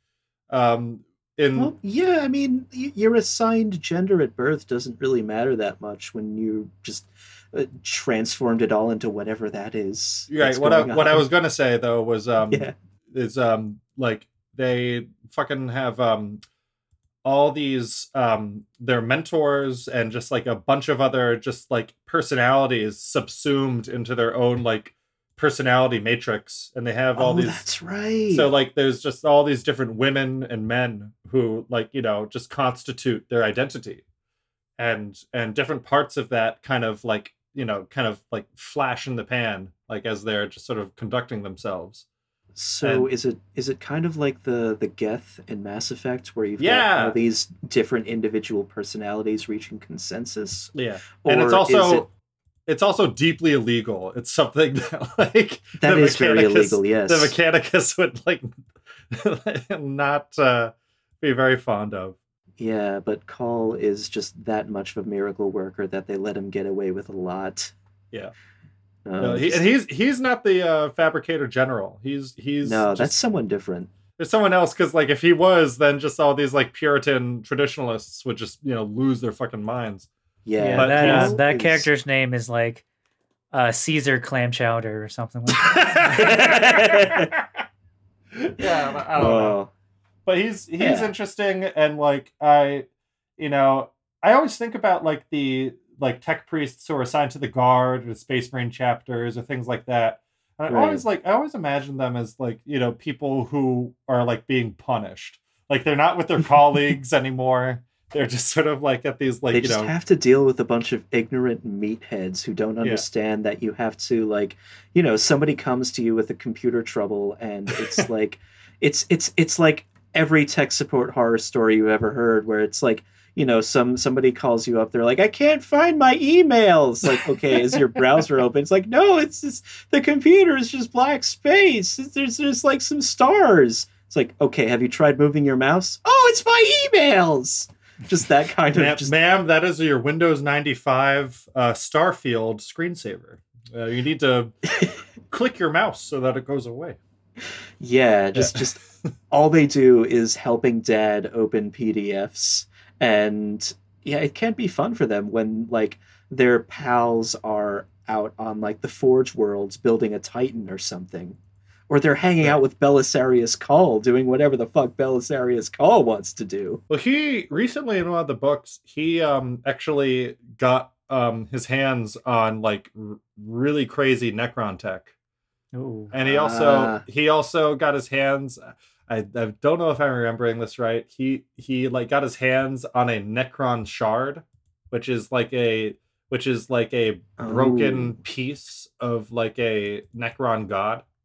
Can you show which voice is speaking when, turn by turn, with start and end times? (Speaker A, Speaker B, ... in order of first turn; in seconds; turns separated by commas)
Speaker A: 0.5-1.7, Speaker B: 1.6-11.3, Speaker A: 10.3-16.4, Speaker B: 12.5-12.7, Speaker A: 17.2-27.6, Speaker B: 27.2-28.5, Speaker A: 28.3-34.0, Speaker A: 34.8-42.0, Speaker B: 42.6-52.1, Speaker A: 42.8-43.1, Speaker A: 46.6-47.2, Speaker A: 50.7-52.1, Speaker A: 52.7-62.2, Speaker B: 55.8-57.3, Speaker B: 62.6-67.7, Speaker B: 69.0-69.7, Speaker A: 69.2-73.2, Speaker B: 72.6-73.9, Speaker A: 74.2-80.1, Speaker B: 80.5-81.9, Speaker C: 80.6-82.8, Speaker A: 80.7-81.4, Speaker C: 83.5-86.4, Speaker A: 85.6-87.4, Speaker B: 86.2-87.3, Speaker A: 88.3-89.6, Speaker B: 89.2-89.7, Speaker A: 90.3-92.9, Speaker B: 90.8-91.1, Speaker A: 93.4-109.9, Speaker B: 100.7-101.0, Speaker B: 109.5-139.2, Speaker A: 138.7-144.5, Speaker A: 145.3-147.0, Speaker B: 147.8-161.4, Speaker A: 148.3-149.1, Speaker B: 161.9-166.8, Speaker A: 166.9-175.1, Speaker C: 175.7-176.1, Speaker A: 176.1-191.1, Speaker B: 176.2-177.0, Speaker B: 187.4-188.2